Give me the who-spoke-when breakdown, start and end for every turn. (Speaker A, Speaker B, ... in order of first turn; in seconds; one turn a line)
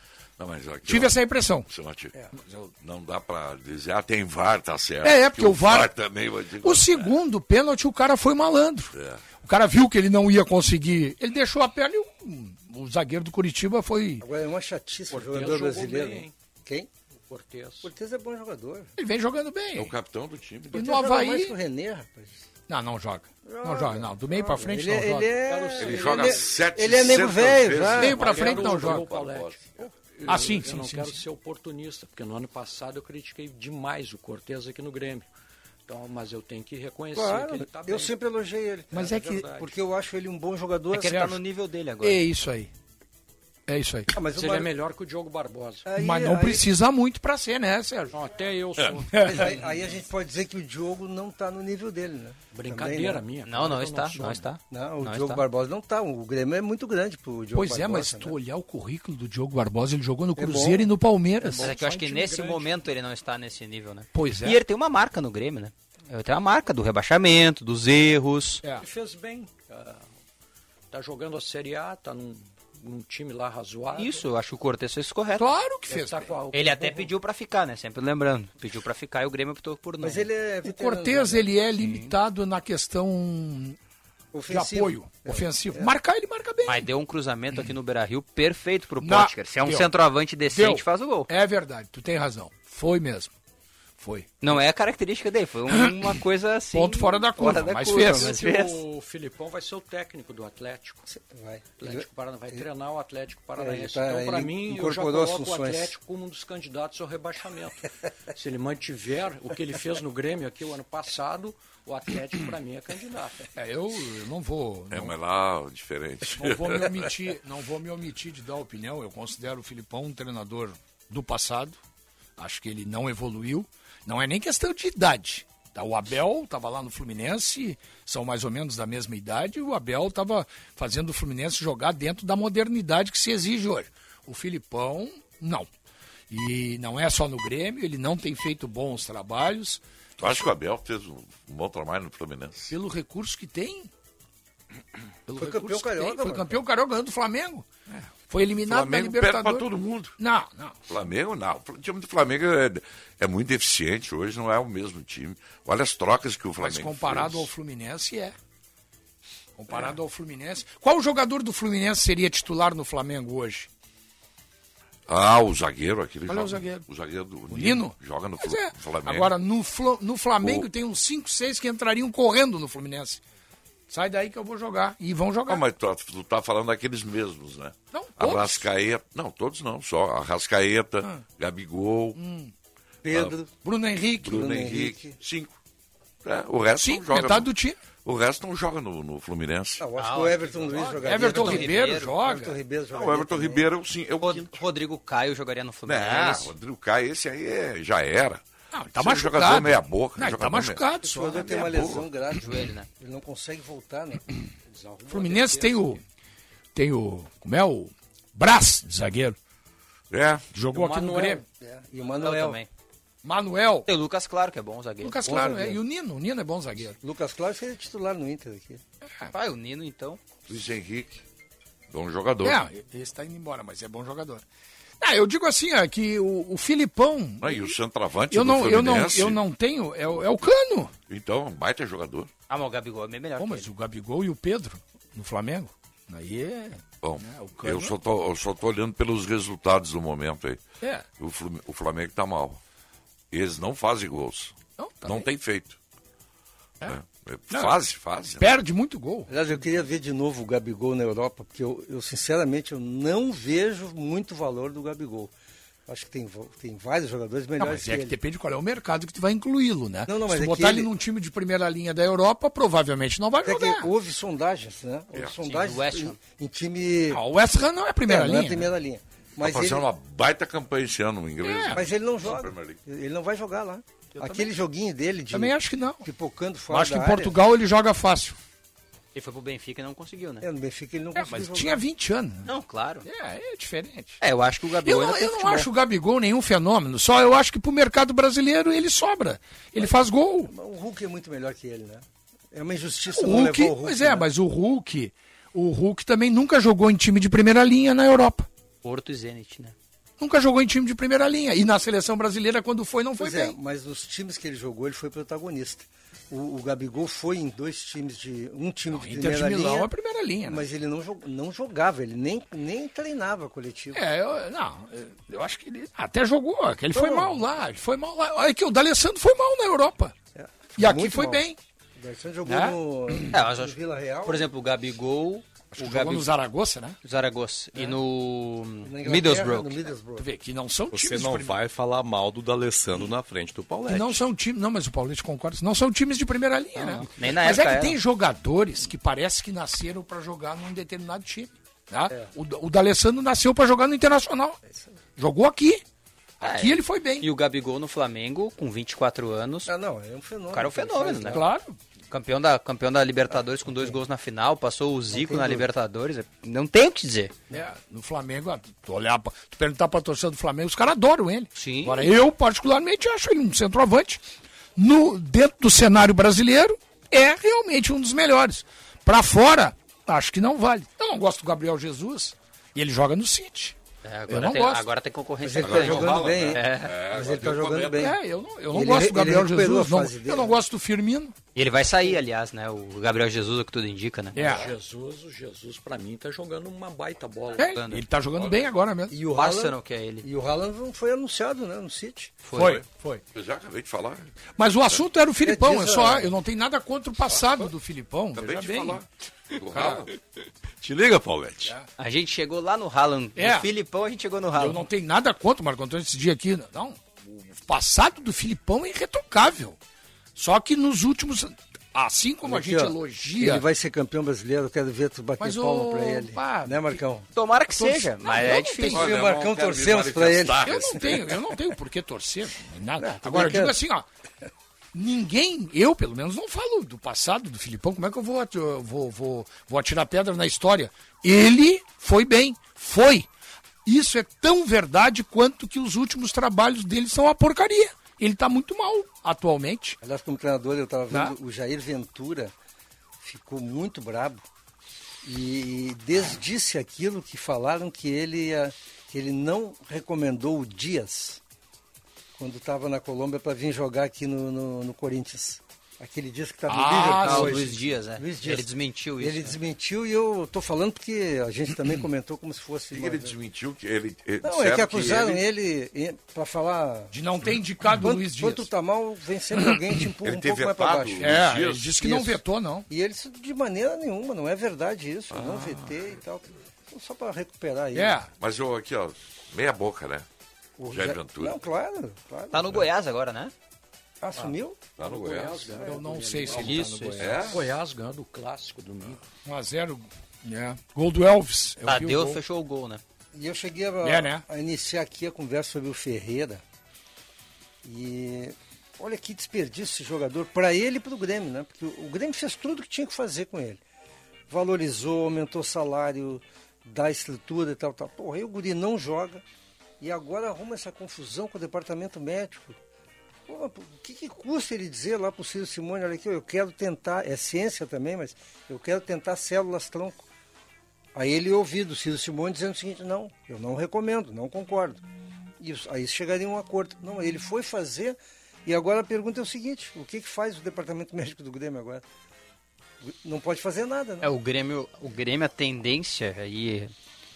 Speaker A: 0.4-2.1
Speaker B: 0.8-1.7
Speaker A: 2.8-7.1
Speaker B: 5.0-5.9
Speaker B: 6.6-14.2
Speaker A: 8.9-9.2
Speaker C: 14.2-16.9
Speaker D: 15.1-16.3
Speaker D: 17.3-17.9
Speaker C: 17.8-18.9
Speaker B: 19.0-19.9
Speaker A: 19.7-20.8
Speaker C: 20.7-22.5
Speaker B: 20.7-21.5
Speaker B: 22.7-25.3
Speaker C: 23.4-28.3
Speaker D: 25.5-26.4
Speaker A: 25.8-29.6
Speaker B: 28.0-29.1
Speaker D: 28.0-35.3
Speaker B: 30.2-31.2
Speaker D: 35.9-38.1
Speaker C: 37.1-41.2
Speaker B: 38.9-39.4
Speaker D: 39.0-39.7
Speaker E: 40.9-42.2
Speaker B: 41.0-41.4
Speaker B: 42.0-42.7
Speaker B: 43.7-44.1
Speaker C: 44.1-44.7
Speaker D: 44.3-45.9
Speaker C: 45.8-46.6
Speaker B: 46.0-48.1
Speaker D: 48.1-49.9
Speaker B: 49.1-49.5
Speaker C: 49.2-53.2
Speaker D: 52.5-54.5
Speaker E: 53.5-55.4
Speaker C: 54.7-58.4
Speaker B: 57.5-61.8
Speaker C: 60.4-60.9
Speaker D: 61.5-62.7
Speaker E: 61.6-68.6
Speaker B: 64.1-64.6
Speaker D: 68.7-70.0
Speaker D: 70.9-74.2
Speaker E: 73.9-75.4
Speaker B: 75.4-76.3
Speaker D: 75.9-77.1
Speaker E: 76.5-80.3
Speaker C: 80.0-81.5
Speaker B: 80.6-83.8
Speaker C: 84.3-85.9
Speaker B: 84.5-86.8
Speaker E: 86.7-91.3
Speaker B: 89.0-89.9
Speaker B: 90.5-93.3
Speaker B: 94.0-94.3
Speaker E: 94.4-98.8
Speaker B: 95.7-96.1
Speaker B: 96.7-98.3
Speaker D: 98.0-101.0
Speaker C: 101.1-102.7
Speaker D: 101.8-113.5
Speaker C: 103.6-105.9
Speaker B: 113.5-115.1
Speaker A: 114.9-117.0
Speaker B: 116.3-121.8
Speaker B: 122.4-135.7
Speaker B: 136.3-140.5
Speaker A: 140.2-142.7
Speaker B: 142.7-143.9
Speaker B: 145.3-150.8
Speaker C: 145.4-146.6
Speaker A: 148.6-150.2
Speaker A: 150.9-157.5
Speaker B: 156.6-158.3
Speaker B: 159.6-163.7
Speaker A: 165.1-169.3
Speaker B: 166.3-166.8
Speaker B: 167.5-173.2
Speaker A: 170.4-170.7
Speaker B: 173.9-175.6
Speaker A: 175.5-182.2
Speaker B: 177.9-178.7
Speaker B: 182.2-182.5
Speaker C: 183.0-183.5
Speaker A: 183.1-183.3
Speaker B: 183.6-184.5
Speaker A: 184.2-185.6
Speaker C: 184.2-185.2
Speaker A: 186.2-187.5
Speaker B: 186.8-187.8
Speaker A: 188.0-189.8
Speaker C: 189.8-193.7
Speaker E: 190.0-192.1
Speaker B: 191.0-192.6
Speaker A: 192.9-194.6
Speaker E: 194.2-196.5
Speaker A: 195.8-198.4
Speaker B: 198.7-201.5
Speaker A: 198.9-202.1
Speaker C: 201.0-204.2
Speaker E: 202.4-202.9
Speaker D: 204.7-206.0
Speaker B: 205.1-206.0
Speaker B: 206.7-209.4
Speaker A: 210.1-210.4
Speaker B: 210.5-211.4
Speaker D: 210.7-211.4
Speaker C: 211.6-212.6
Speaker E: 212.2-212.7
Speaker B: 213.2-213.9
Speaker E: 213.9-215.2
Speaker B: 215.0-217.0
Speaker C: 215.2-215.8
Speaker C: 217.0-218.8
Speaker E: 219.3-220.2
Speaker A: 220.5-221.2
Speaker A: 221.9-222.6
Speaker B: 222.4-224.4
Speaker B: 225.0-227.7
Speaker A: 227.4-229.4
Speaker B: 228.3-230.9
Speaker A: 231.1-232.3
Speaker E: 232.5-233.7
Speaker B: 233.4-237.9
Speaker A: 237.0-240.6
Speaker A: 241.2-242.6
Speaker A: 243.3-245.8
Speaker B: 244.8-245.3
Speaker A: 246.8-248.5
Speaker B: 247.5-247.8
Speaker B: 248.4-249.3
Speaker C: 249.3-255.3
Speaker C: 255.9-258.1
Speaker B: 257.6-263.9
Speaker C: 260.1-260.9
Speaker C: 263.4-267.2
Speaker E: 265.4-266.2
Speaker B: 267.1-268.7
Speaker C: 268.1-269.9
Speaker A: 269.4-272.8
Speaker B: 271.4-271.8
Speaker C: 271.7-277.4
Speaker B: 274.2-274.5
Speaker B: 275.3-276.0
Speaker B: 276.7-278.4
Speaker E: 279.1-280.4
Speaker C: 280.4-281.8
Speaker B: 281.1-282.5
Speaker E: 282.4-283.1
Speaker B: 283.0-284.2
Speaker E: 284.2-285.7
Speaker B: 284.8-290.5
Speaker C: 289.8-294.3
Speaker B: 293.1-298.5
Speaker E: 298.8-299.7
Speaker B: 300.2-303.5
Speaker C: 303.2-309.9
Speaker B: 308.9-310.6
Speaker C: 310.4-314.0
Speaker B: 313.9-320.1
Speaker C: 316.9-317.4
Speaker C: 320.3-321.4
Speaker B: 320.8-321.6
Speaker C: 322.0-324.4
Speaker B: 322.4-323.3
Speaker E: 323.3-326.3
Speaker B: 325.7-326.9
Speaker E: 327.0-329.9
Speaker C: 328.8-330.2
Speaker B: 330.2-331.6
Speaker F: 330.9-334.2
Speaker B: 333.9-344.6
Speaker E: 336.8-338.0
Speaker B: 345.2-345.8
Speaker B: 346.4-347.3
Speaker E: 346.4-349.7
Speaker C: 349.6-351.5
Speaker E: 350.5-351.4
Speaker B: 351.3-351.8
Speaker E: 352.1-357.3
Speaker C: 353.3-354.0
Speaker C: 355.1-355.7
Speaker B: 357.5-364.2
Speaker E: 361.5-362.1
Speaker B: 364.8-373.8
Speaker E: 374.0-376.9
Speaker B: 374.3-374.8
Speaker C: 375.4-378.2
Speaker A: 375.6-378.1
Speaker B: 378.0-381.3
Speaker C: 378.7-380.6
Speaker E: 381.5-384.4
Speaker B: 384.3-384.7
Speaker D: 384.3-387.8
Speaker B: 387.6-389.1
Speaker E: 387.6-388.0
Speaker A: 388.3-388.7
Speaker C: 389.1-392.3
Speaker E: 389.3-390.2
Speaker E: 392.4-392.8
Speaker B: 392.5-393.2
Speaker A: 392.6-392.8
Speaker A: 393.3-394.3
Speaker B: 394.6-399.0
Speaker C: 395.4-396.4
Speaker A: 398.3-400.1
Speaker B: 399.7-400.1
Speaker F: 400.8-401.7
Speaker E: 402.0-404.8
Speaker B: 403.4-403.7
Speaker B: 404.6-407.0
Speaker B: 407.5-409.8
Speaker B: 410.4-413.6
Speaker C: 412.4-417.3
Speaker B: 415.4-417.0
Speaker E: 417.3-419.1
Speaker B: 417.8-419.1
Speaker A: 418.9-421.2
Speaker C: 418.9-420.9
Speaker B: 420.6-424.1
Speaker C: 423.0-423.8
Speaker B: 424.9-433.3
Speaker B: 433.9-440.0
Speaker C: 440.0-442.5
Speaker C: 443.2-444.4
Speaker C: 445.2-451.4
Speaker C: 452.4-458.7
Speaker B: 456.7-457.6
Speaker E: 457.2-459.6
Speaker C: 459.2-463.4
Speaker A: 462.9-465.4
Speaker C: 464.4-467.1
Speaker B: 467.1-468.7
Speaker C: 467.9-471.4
Speaker A: 470.2-472.0
Speaker B: 471.2-472.9
Speaker C: 472.0-472.4
Speaker C: 472.9-478.2
Speaker A: 475.3-475.7
Speaker B: 477.9-478.3
Speaker A: 478.4-480.2
Speaker C: 480.8-482.9
Speaker A: 480.9-481.6
Speaker E: 482.5-483.5
Speaker C: 484.2-484.9
Speaker A: 485.0-485.8
Speaker D: 485.0-489.2
Speaker B: 485.8-487.4
Speaker E: 486.5-487.1
Speaker A: 487.2-487.6
Speaker B: 489.4-492.4
Speaker E: 491.8-493.0
Speaker C: 493.3-496.6
Speaker B: 494.0-494.4
Speaker C: 497.8-503.8
Speaker C: 504.5-509.4
Speaker C: 510.0-512.8
Speaker C: 513.5-520.2
Speaker C: 521.1-525.0
Speaker C: 525.6-532.0
Speaker C: 533.0-534.3
Speaker E: 534.2-536.9